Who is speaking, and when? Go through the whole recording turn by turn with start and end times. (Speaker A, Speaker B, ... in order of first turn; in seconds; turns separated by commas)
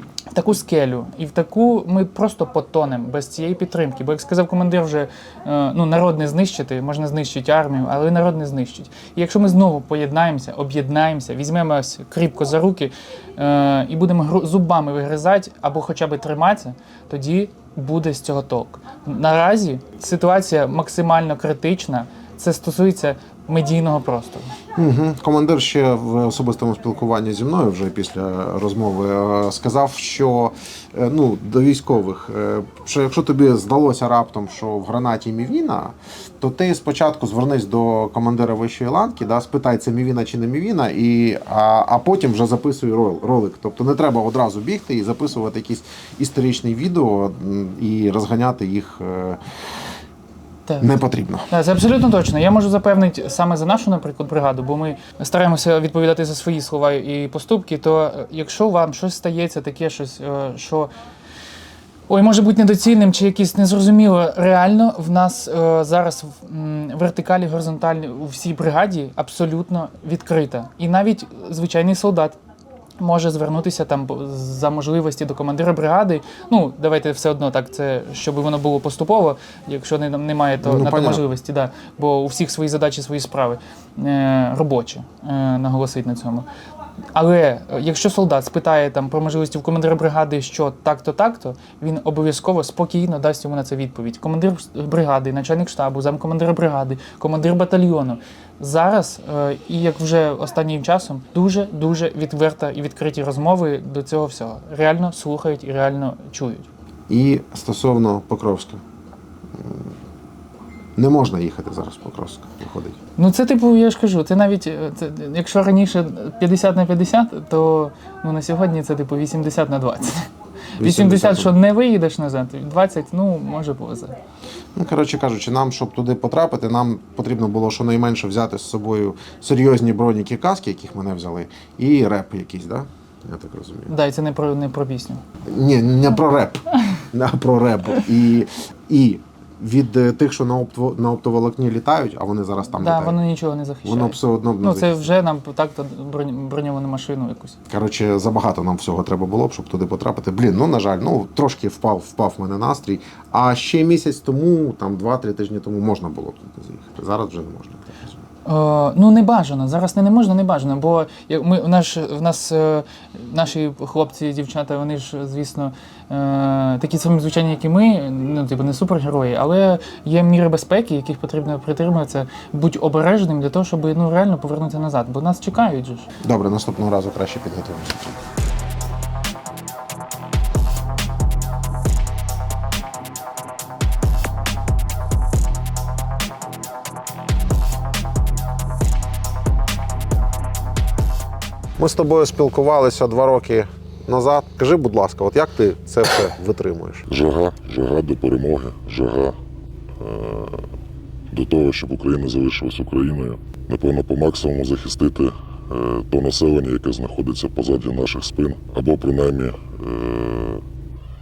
Speaker A: 0.3-24.5, Speaker B: 24.8-49.4, Speaker A: 50.7-50.9, Speaker B: 50.8-51.5, Speaker A: 51.5-60.9, Speaker A: 62.1-72.4, Speaker A: 73.0-86.5, Speaker B: 80.6-81.2, Speaker A: 87.1-106.7, Speaker B: 107.1-108.8, Speaker B: 109.6-109.9, Speaker B: 111.0-113.0, Speaker A: 113.2-124.1, Speaker B: 120.8-121.5, Speaker B: 124.8-133.9, Speaker A: 133.9-135.2, Speaker B: 135.5-143.2, Speaker A: 142.8-147.6, Speaker B: 143.8-145.0, Speaker B: 147.7-158.2, Speaker A: 158.4-176.1, Speaker B: 176.2-178.2, Speaker B: 191.8-197.1, Speaker C: 197.1-199.3, Speaker C: 200.0-200.7, Speaker C: 201.3-210.6